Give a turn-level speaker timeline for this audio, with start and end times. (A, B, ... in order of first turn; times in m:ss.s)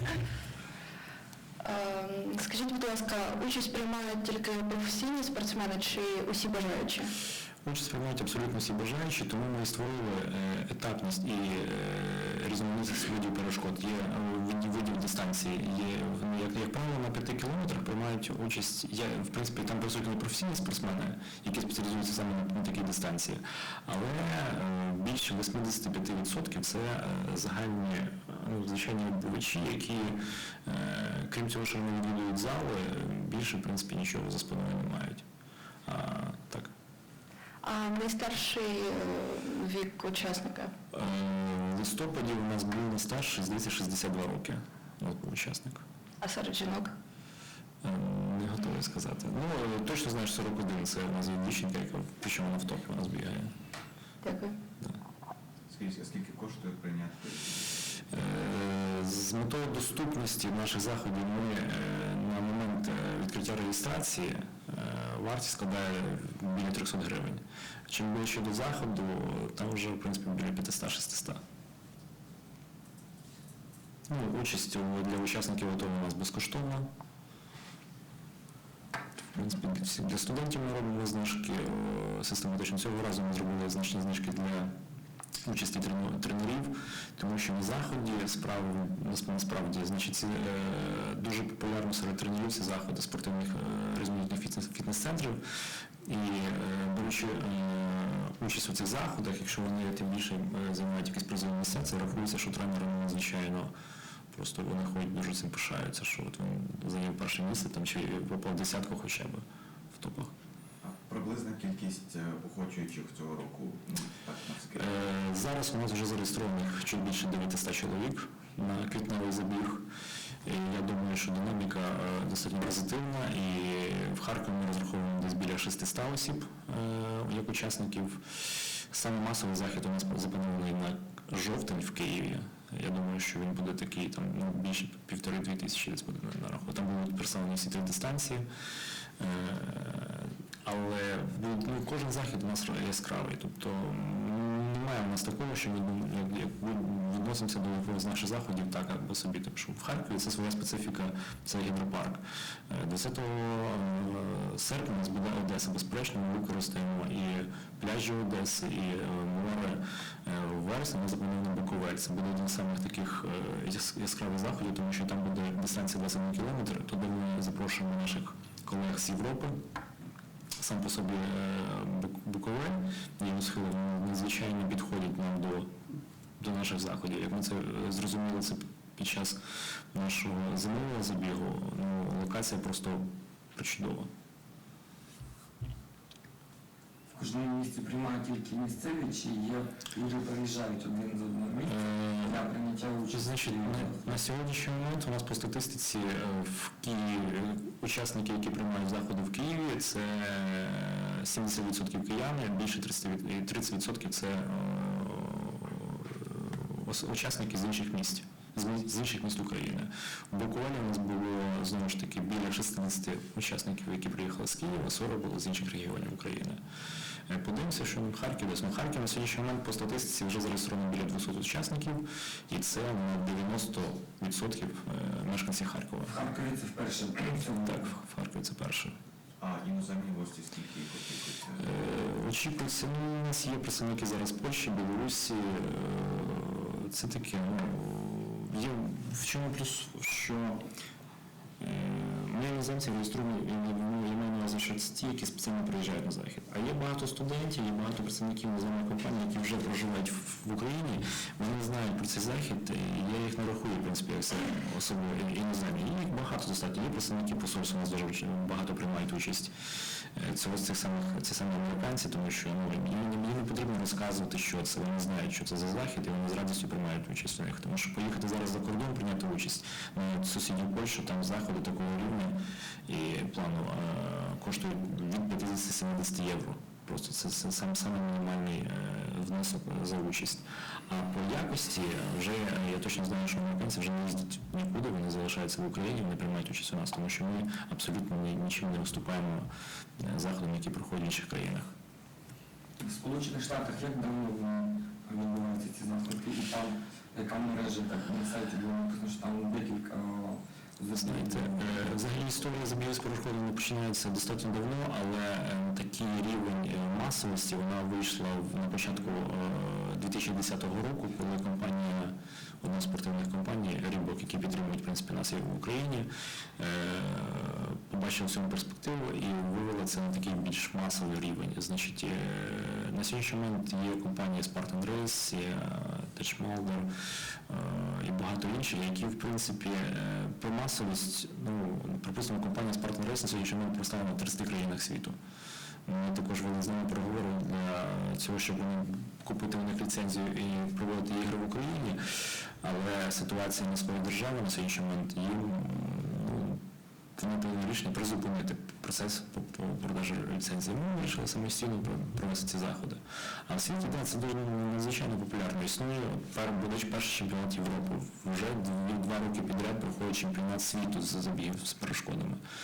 0:01.6-0:07.1 A
0:07.6-0:35.2 B
0:35.8-0:36.7 B
0:37.6-0:40.7 A
0:40.9-0:45.8 B
0:46.2-0:46.9 A
0:47.8-0:53.5 B
0:54.2-0:54.6 A
0:55.7-0:57.9 C
0:58.1-1:11.4 B
1:14.1-1:16.9 B
1:19.3-1:24.7 B
1:25.4-1:35.4 B
1:36.0-1:43.7 B
1:44.3-1:50.3 B
1:50.8-1:55.0 C
1:54.7-1:59.9 B
2:00.4-2:18.5 B
2:19.2-2:49.6 B
2:50.6-2:55.7 B
2:56.4-2:59.4 B
2:59.9-3:04.1 B
3:07.2-3:14.2 D
3:11.7-3:12.4 B
3:13.1-3:36.6 B
3:37.3-3:46.2 B
3:46.0-3:47.9 D
3:47.5-3:48.9 B
3:49.4-3:51.7 C
3:51.6-4:00.7 B
4:01.6-4:19.5 B
4:20.2-4:51.7 B
4:52.8-5:01.8 D
5:00.9-5:26.9 B
5:27.5-5:35.2 B
5:35.8-5:42.0 B
5:42.6-5:46.6 B
5:47.2-6:02.4 B